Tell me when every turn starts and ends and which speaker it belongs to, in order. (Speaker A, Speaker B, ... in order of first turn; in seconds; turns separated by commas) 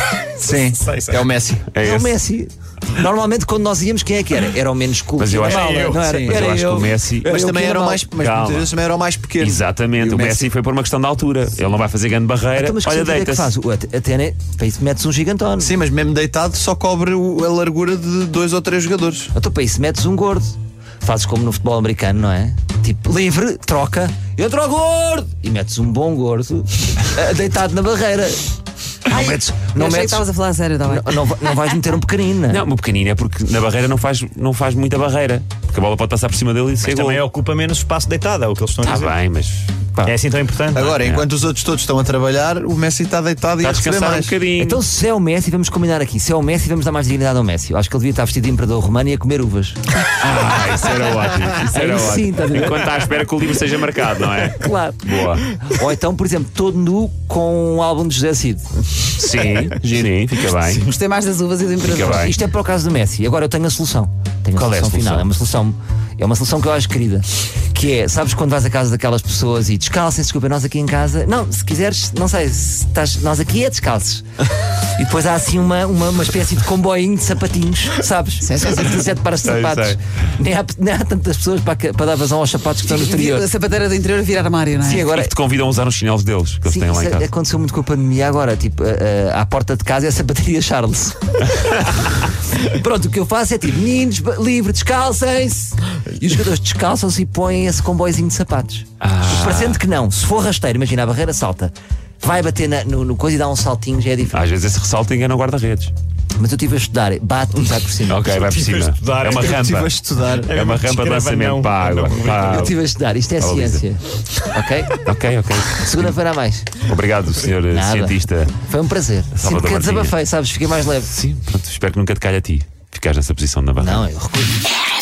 Speaker A: 0.4-1.7, Speaker B: 0.7-1.2, Speaker C: 1.7-2.1, Speaker D: 1.8-8.0, Speaker C: 5.2-7.4, Speaker B: 5.4-6.2, Speaker A: 5.7-6.6, Speaker A: 7.2-10.5, Speaker C: 8.2-8.7, Speaker C: 9.4-13.5, Speaker D: 12.5-15.7, Speaker A: 15.6-19.3, Speaker D: 19.3-28.4, Speaker D: 29.0-30.2, Speaker E: 29.1-31.2, Speaker D: 30.9-32.6, Speaker C: 32.5-37.2, Speaker B: 36.8-39.1, Speaker C: 38.8-39.7, Speaker B: 40.0-41.0, Speaker A: 40.7-44.4, Speaker C: 40.9-41.3, Speaker C: 43.6-44.8, Speaker D: 44.6-49.8, Speaker C: 50.2-55.5, Speaker D: 51.7-52.9, Speaker D: 54.5-58.7, Speaker C: 59.1-60.9, Speaker E: 60.8-62.3, Speaker C: 61.8-62.3, Speaker D: 62.1-74.2, Speaker C: 64.5-65.3, Speaker D: 75.0-83.5, Speaker E: 78.5-79.1, Speaker C: 79.4-80.0, Speaker E: 82.9-85.1, Speaker D: 84.8-85.3, Speaker C: 84.8-87.3, Speaker D: 86.6-104.4, Speaker C: 99.0-99.8, Speaker C: 104.3-105.9, Speaker D: 106.4-108.3, Speaker C: 108.1-109.9, Speaker B: 108.4-109.8, Speaker A: 109.2-110.5, Speaker B: 110.3-112.7, Speaker C: 110.5-112.8, Speaker D: 112.5-114.9, Speaker C: 113.4-113.8, Speaker C: 115.0-116.2, Speaker D: 115.8-116.7, Speaker C: 116.8-118.5, Speaker D: 117.7-121.1, Speaker C: 119.3-120.2, Speaker C: 121.0-124.1, Speaker D: 123.8-124.7